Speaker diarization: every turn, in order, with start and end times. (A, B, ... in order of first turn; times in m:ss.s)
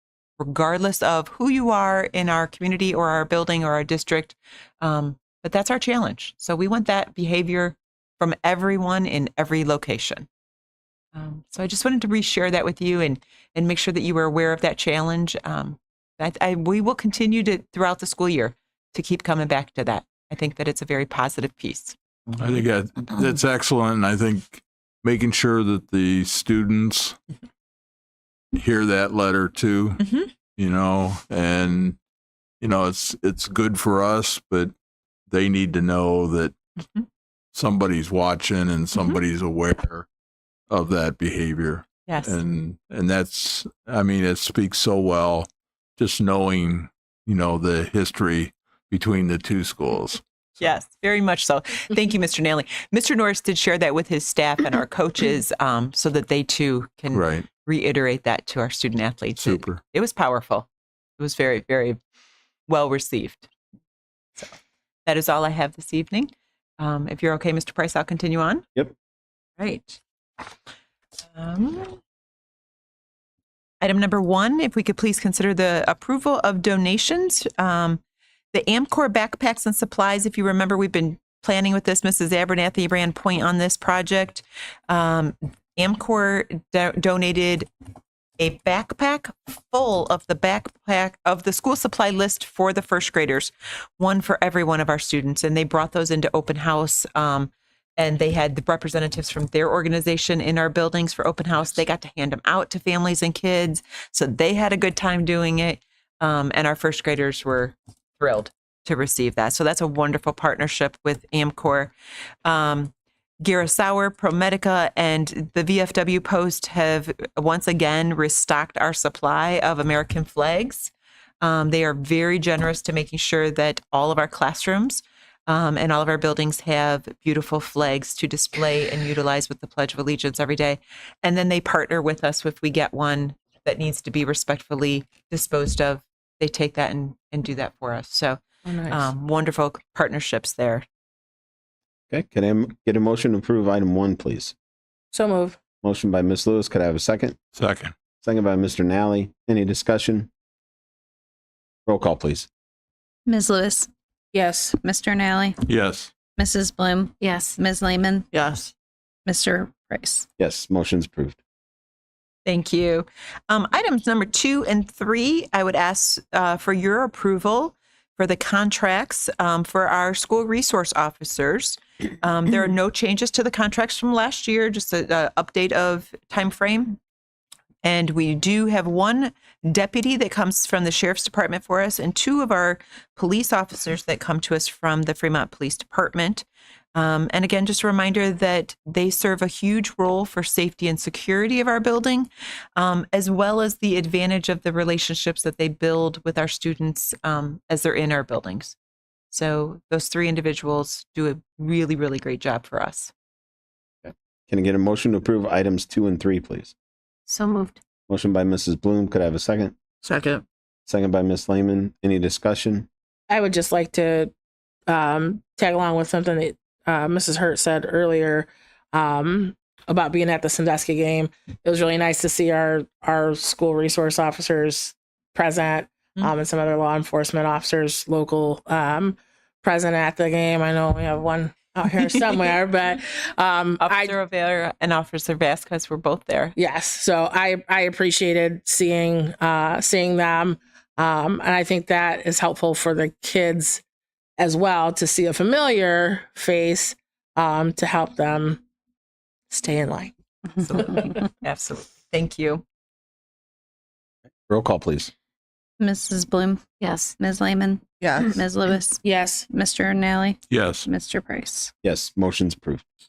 0:00.4-0:10.3 A
0:11.2-0:22.6 A
0:22.4-0:27.2 B
0:28.5-0:32.0 B
0:30.0-0:30.3 A
0:32.6-0:34.7 B
0:35.3-0:36.6 B
0:37.5-0:40.1 B
0:40.7-0:50.2 B
0:42.1-0:42.4 A
0:50.6-1:00.7 A
0:57.1-0:57.5 B
0:59.4-0:59.8 B
1:01.2-1:02.0 A
1:02.7-1:03.5 A
1:05.1-1:08.6 A
1:09.6-1:10.0 A
1:11.4-1:12.0 A
1:13.8-1:18.0 A
1:18.5-1:27.7 A
1:28.4-1:51.9 A
1:52.4-2:20.8 A
2:18.7-2:19.1 C
2:22.1-2:24.5 D
2:25.1-2:25.6 C
2:25.8-2:27.4 D
2:27.6-2:27.9 B
2:28.2-2:30.3 D
2:31.9-2:32.5 D
2:33.3-2:33.9 E
2:34.3-2:34.8 C
2:34.8-2:35.6 E
2:35.6-2:36.1 B
2:36.4-2:38.3 E
2:37.2-2:37.6 F
2:38.3-2:38.7 F
2:39.3-2:40.3 E
2:40.4-2:41.4 D
2:42.5-2:57.0 A
2:57.8-3:18.8 A
3:19.3-3:23.1 A
3:24.0-3:26.7 D
3:27.3-3:27.8 F
3:28.1-3:29.8 D
3:30.0-3:30.4 F
3:30.9-3:32.9 D
3:33.3-3:34.3 C
3:34.9-3:54.1 C
3:53.8-3:56.6 A
3:56.6-4:03.8 C
4:04.4-4:08.6 C
4:09.5-4:10.1 C
4:10.6-4:12.6 A
4:10.8-4:11.0 C
4:14.5-4:15.1 D
4:15.8-4:17.8 E
4:16.8-4:17.1 F
4:18.0-4:18.4 F
4:18.3-4:21.7 E
4:19.0-4:19.5 C
4:20.5-4:20.9 B
4:21.8-4:22.8 D